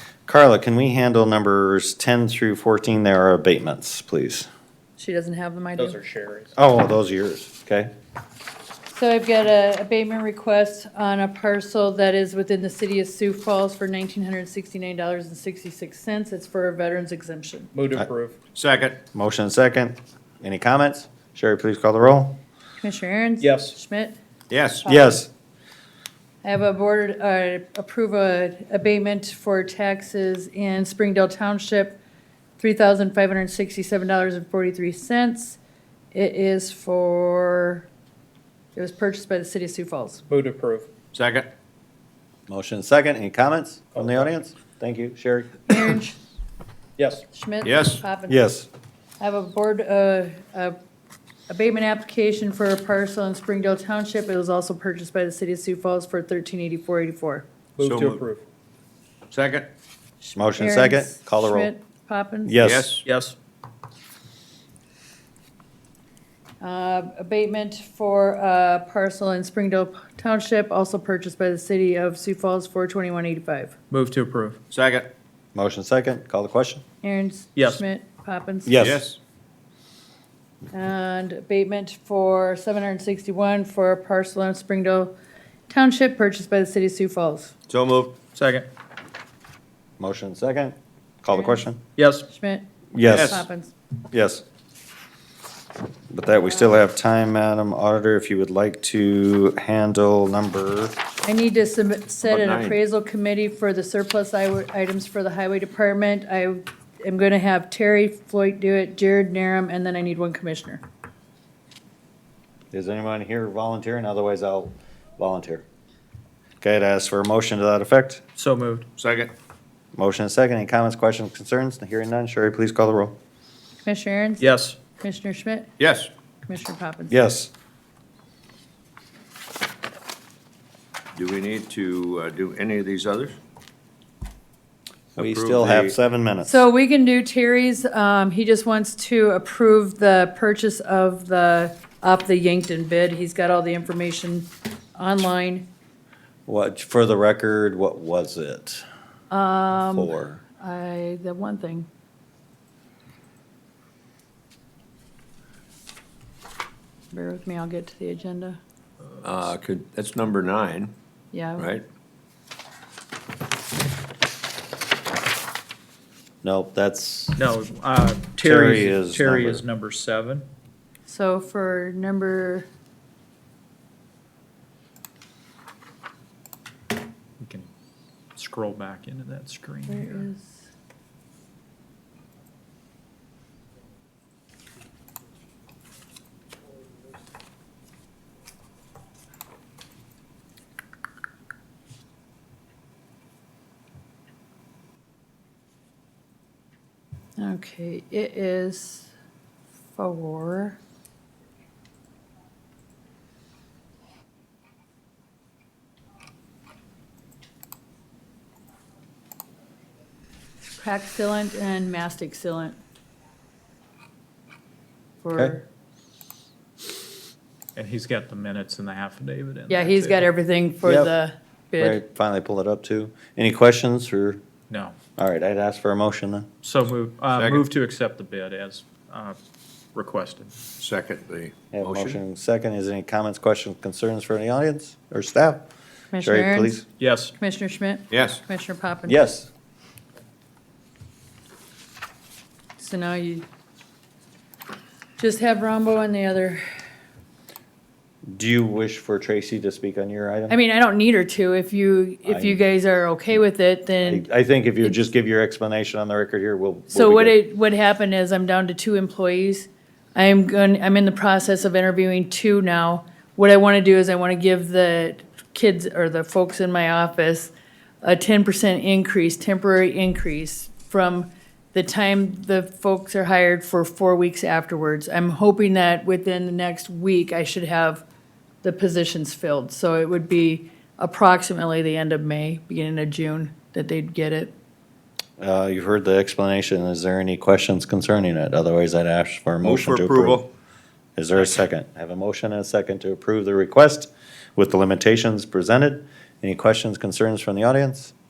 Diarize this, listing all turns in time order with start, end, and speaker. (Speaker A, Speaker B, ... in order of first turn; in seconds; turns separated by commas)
Speaker A: 0.3-4.5, Speaker B: 5.0-6.0, Speaker C: 5.8-6.5, Speaker A: 6.5-7.9, Speaker B: 8.9-17.7, Speaker C: 17.7-18.4, Speaker D: 18.5-19.0, Speaker A: 19.1-22.4, Speaker B: 22.8-24.2, Speaker C: 23.4-23.8, Speaker D: 24.5-24.8, Speaker B: 24.8-25.2, Speaker A: 24.8-25.3, Speaker B: 26.4-32.0, Speaker B: 32.6-35.6, Speaker B: 36.1-37.9, Speaker B: 38.7-40.2, Speaker C: 40.3-40.9, Speaker D: 41.1-41.5, Speaker A: 42.5-45.8, Speaker C: 44.0-44.2, Speaker B: 45.7-46.2, Speaker C: 47.0-47.2, Speaker B: 47.3-48.4, Speaker D: 47.6-48.0, Speaker A: 48.3-48.7, Speaker B: 49.2-50.8, Speaker B: 51.5-57.5, Speaker D: 57.8-58.2, Speaker C: 57.8-58.4, Speaker D: 59.3-59.7, Speaker B: 60.2-62.6, Speaker A: 60.4-61.7, Speaker A: 62.5-63.0, Speaker D: 62.6-63.0, Speaker C: 63.0-63.4, Speaker B: 66.6-73.7, Speaker C: 73.9-74.6, Speaker D: 74.7-75.1, Speaker A: 75.5-76.8, Speaker B: 77.0-78.8, Speaker C: 77.5-77.8, Speaker A: 78.7-79.1, Speaker D: 78.8-79.2, Speaker B: 80.7-85.1, Speaker B: 85.7-87.5, Speaker D: 87.7-88.2, Speaker C: 88.3-88.7, Speaker A: 90.0-91.8, Speaker B: 91.3-91.6, Speaker C: 92.0-92.3, Speaker B: 92.3-93.7, Speaker A: 92.9-93.4, Speaker D: 93.1-93.4, Speaker A: 94.1-94.4, Speaker A: 96.1-101.0, Speaker B: 96.4-96.8, Speaker B: 101.2-110.8, Speaker D: 102.2-102.8, Speaker A: 112.7-115.6, Speaker A: 116.6-118.2, Speaker C: 118.3-118.9, Speaker D: 119.0-119.3, Speaker A: 119.9-123.1, Speaker B: 123.8-125.7, Speaker C: 124.4-124.8, Speaker D: 125.8-126.1, Speaker B: 126.5-127.2, Speaker A: 127.1-127.5, Speaker D: 131.1-133.4, Speaker D: 135.2-135.9, Speaker A: 135.2-136.6, Speaker B: 136.4-145.7, Speaker A: 146.5-148.8, Speaker B: 149.3-151.9, Speaker A: 149.7-150.4, Speaker B: 157.1-158.6, Speaker D: 159.2-160.9, Speaker B: 161.3-161.7, Speaker D: 161.6-161.8, Speaker A: 166.4-167.4, Speaker C: 167.3-170.4, Speaker A: 168.4-169.6, Speaker B: 171.1-172.7, Speaker C: 177.4-177.7, Speaker C: 178.3-180.2, Speaker B: 179.9-180.6, Speaker B: 197.4-199.1, Speaker B: 199.9-200.8, Speaker B: 210.8-212.8, Speaker B: 215.2-215.7, Speaker C: 217.8-220.2, Speaker B: 219.7-222.0, Speaker A: 220.8-221.1, Speaker A: 221.8-224.4, Speaker C: 224.7-224.9, Speaker A: 225.2-226.5, Speaker C: 226.6-229.4, Speaker D: 227.3-227.7, Speaker C: 229.9-230.5, Speaker D: 230.8-232.2, Speaker A: 231.7-235.7, Speaker B: 236.1-236.8, Speaker A: 236.2-236.8, Speaker C: 237.0-237.3, Speaker B: 237.4-239.2, Speaker D: 238.1-238.4, Speaker A: 239.1-239.5, Speaker B: 242.8-243.4, Speaker B: 245.2-246.6, Speaker A: 248.3-250.6, Speaker B: 250.5-254.2, Speaker A: 252.2-252.6, Speaker A: 254.0-257.4, Speaker B: 256.9-278.0, Speaker B: 278.6-284.5, Speaker A: 285.4-290.4, Speaker D: 289.6-290.5, Speaker A: 291.2-298.1